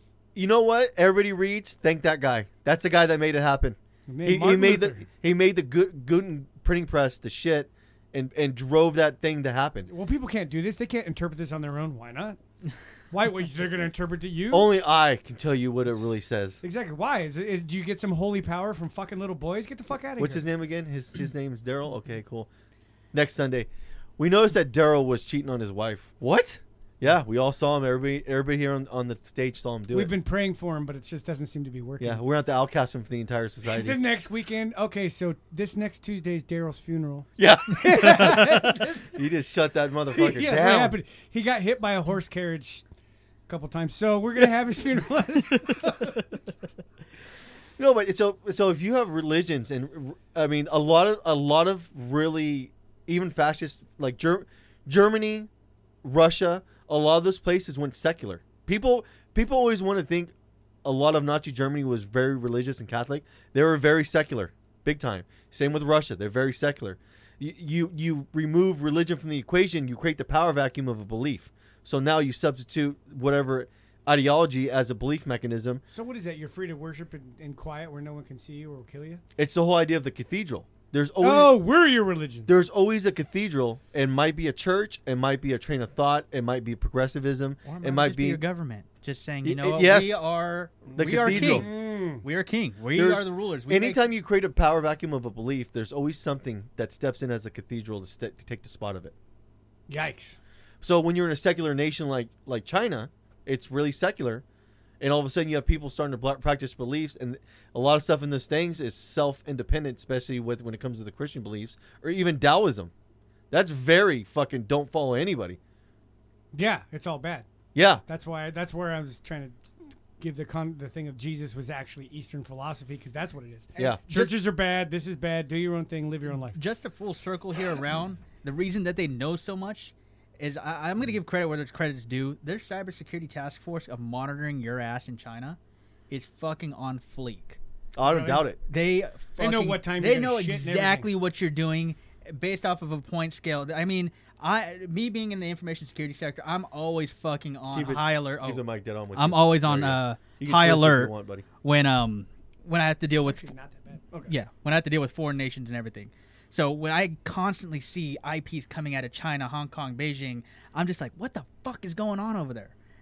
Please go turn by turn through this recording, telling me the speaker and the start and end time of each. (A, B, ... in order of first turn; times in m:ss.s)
0:00.4-0:09.9 A
0:04.1-0:05.1 B
0:09.9-0:12.4 B
0:13.1-0:14.7 B
0:14.5-0:16.6 A
0:16.6-0:20.4 B
0:20.2-0:22.5 A
0:23.1-0:30.1 A
0:29.9-0:32.2 B
0:32.0-0:34.0 A
0:33.7-0:39.1 B
0:37.4-0:41.0 A
0:40.1-0:42.8 B
0:43.5-0:46.3 B
0:47.8-0:55.5 A
0:56.0-1:00.3 A
1:00.8-1:15.8 A
1:15.9-1:19.2 B
1:19.4-1:21.6 A
1:21.2-1:22.5 B
1:22.5-1:28.4 A
1:27.7-1:34.0 C
1:29.4-1:30.2 A
1:31.0-1:31.7 A
1:31.0-1:32.2 B
1:33.0-1:39.1 A
1:39.9-1:40.4 B
1:40.8-1:44.4 A
1:45.0-1:52.9 A
1:53.5-1:55.6 A
1:56.5-1:57.5 B
1:57.7-1:58.0 A
1:58.1-2:06.6 B
2:03.8-2:04.3 A
2:06.5-2:15.6 C
2:16.1-2:17.6 C
2:18.0-2:18.6 A
2:18.0-2:18.5 B
2:18.7-2:28.6 C
2:19.4-2:21.1 B
2:27.7-2:31.5 A
2:29.2-2:33.5 C
2:33.2-2:34.3 B
2:34.3-2:42.7 C